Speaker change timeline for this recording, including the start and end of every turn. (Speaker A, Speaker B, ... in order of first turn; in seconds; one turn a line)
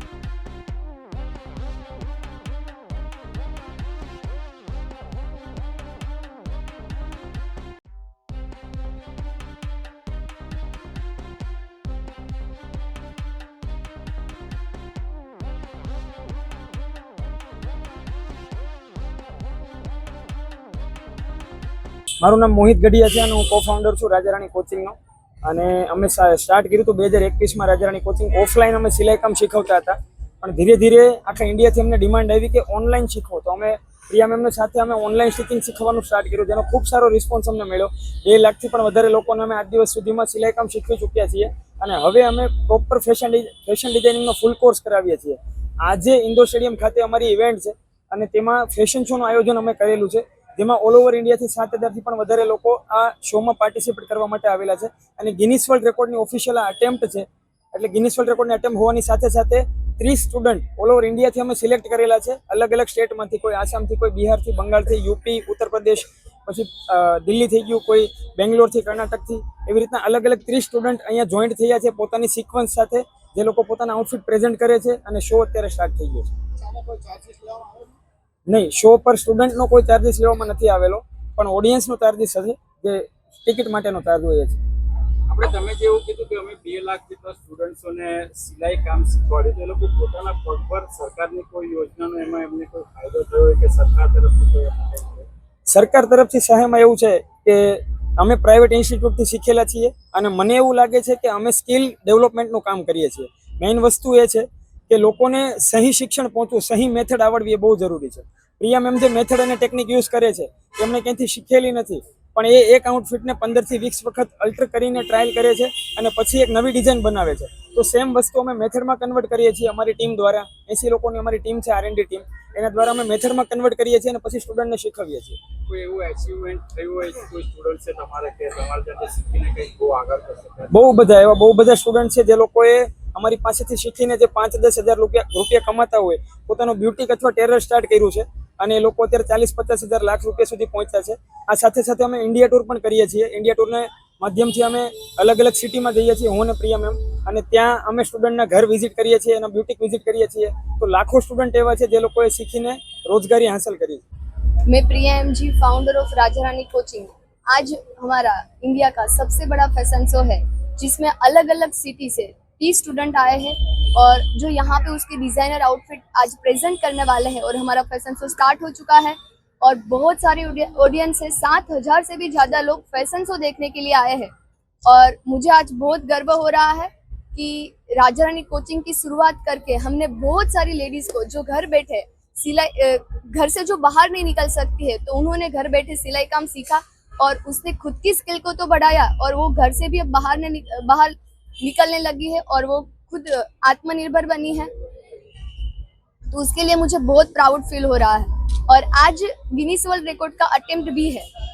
Speaker A: 22.2-76.3
Speaker B: 76.8-77.7
Speaker A: 78.5-84.6
Speaker B: 85.3-95.3
Speaker A: 95.7-125.4
Speaker B: 125.7-130.7
Speaker A: 130.7-154.0
Speaker C: 154.7-174.3
Speaker C: 174.8-194.7
Speaker C: 196.3-201.3